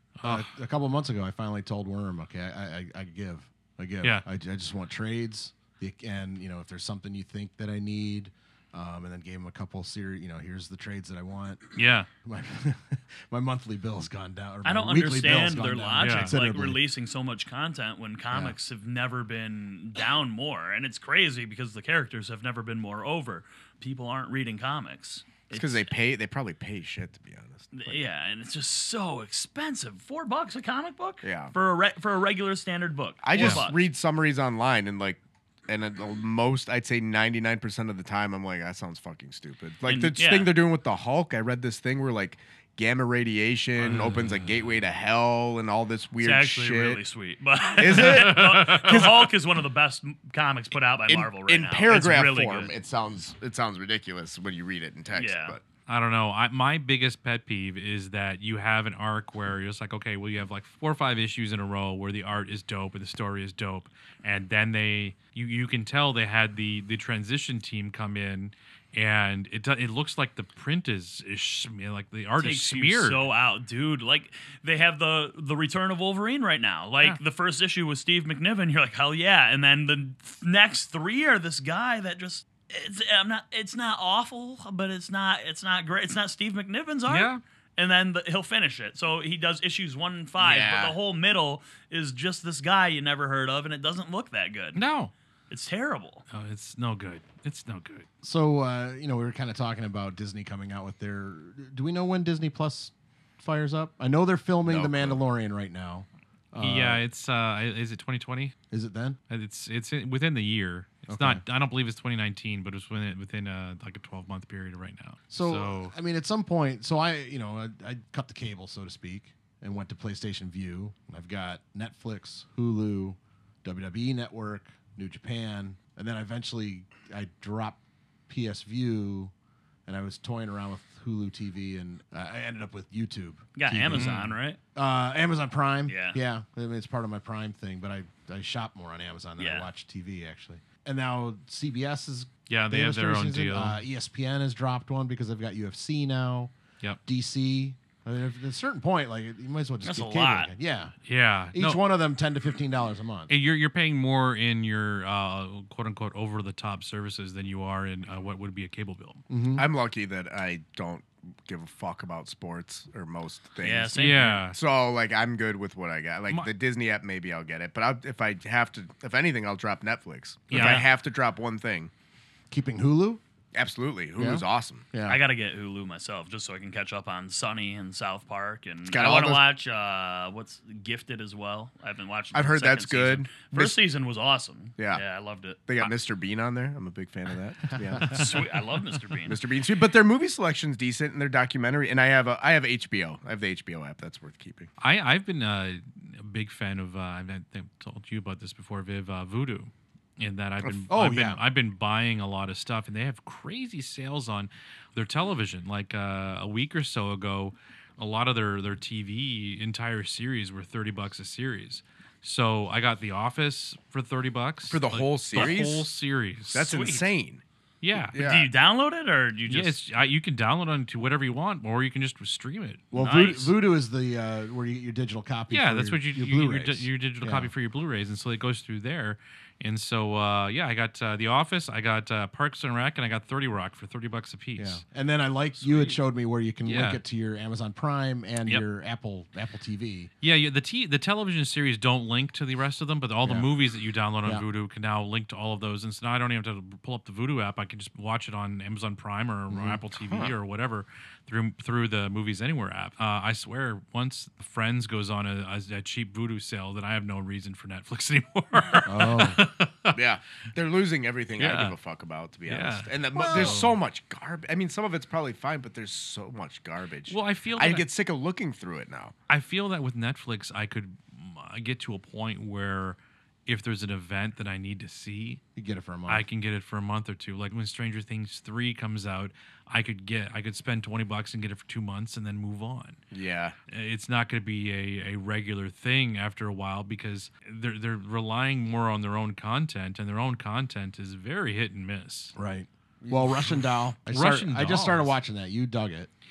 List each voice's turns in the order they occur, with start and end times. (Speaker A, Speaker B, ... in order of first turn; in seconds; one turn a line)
Speaker A: 0.2-0.5
Speaker B: 0.2-11.7
Speaker A: 11.8-12.1
Speaker B: 12.2-16.8
Speaker C: 14.6-25.9
Speaker A: 16.0-16.3
Speaker D: 25.5-28.0
Speaker C: 27.7-33.9
Speaker D: 31.2-31.5
Speaker D: 33.2-47.0
Speaker C: 39.9-40.5
Speaker A: 43.8-44.5
Speaker C: 46.2-52.7
Speaker D: 47.8-49.3
Speaker A: 47.9-49.1
Speaker D: 51.1-55.6
Speaker C: 55.1-55.6
Speaker A: 55.9-73.3
Speaker C: 72.4-94.8
Speaker A: 87.1-87.4
Speaker D: 90.4-91.0
Speaker A: 94.8-95.1
Speaker C: 95.5-96.2
Speaker A: 96.3-98.1
Speaker B: 98.2-107.0
Speaker D: 104.7-105.2
Speaker A: 106.6-108.6
Speaker B: 108.7-109.2
Speaker A: 109.3-115.9
Speaker B: 111.1-111.4
Speaker B: 115.3-129.3
Speaker B: 129.9-146.5
Speaker C: 133.6-134.6
Speaker A: 133.9-134.3
Speaker C: 135.9-136.2
Speaker C: 139.4-139.7
Speaker A: 142.5-143.8
Speaker B: 147.1-151.0
Speaker C: 149.8-150.5
Speaker A: 151.1-151.8
Speaker B: 151.5-153.3
Speaker A: 153.3-159.2
Speaker B: 159.3-159.7
Speaker D: 159.6-171.9
Speaker C: 163.6-164.4
Speaker A: 164.0-164.6
Speaker A: 170.5-170.9
Speaker B: 172.5-173.2
Speaker D: 173.5-174.8
Speaker B: 174.2-175.2
Speaker C: 175.1-185.9
Speaker D: 178.9-179.4
Speaker D: 182.3-183.8
Speaker D: 184.8-185.0
Speaker D: 185.7-188.4
Speaker C: 188.1-189.4
Speaker D: 189.3-194.7
Speaker A: 194.8-216.7
Speaker B: 200.6-201.4
Speaker D: 214.7-215.9
Speaker D: 216.5-217.4
Speaker C: 216.6-217.1
Speaker A: 217.8-218.2
Speaker D: 218.1-218.5
Speaker C: 218.2-219.8
Speaker A: 219.5-222.8
Speaker B: 222.9-227.5
Speaker C: 222.9-223.5
Speaker A: 225.5-234.8
Speaker B: 234.6-240.1
Speaker C: 235.6-236.0
Speaker A: 236.7-237.0
Speaker A: 240.2-260.0
Speaker B: 249.5-249.8
Speaker D: 250.0-250.3
Speaker B: 258.9-259.4
Speaker D: 259.9-269.1
Speaker A: 261.4-261.8
Speaker A: 262.5-263.7
Speaker B: 263.2-263.6
Speaker A: 267.1-267.9
Speaker A: 269.3-275.4
Speaker B: 275.6-276.3
Speaker A: 276.1-283.0
Speaker D: 283.1-283.6
Speaker A: 283.7-292.4
Speaker B: 292.4-296.1
Speaker D: 293.0-293.5
Speaker A: 294.1-295.1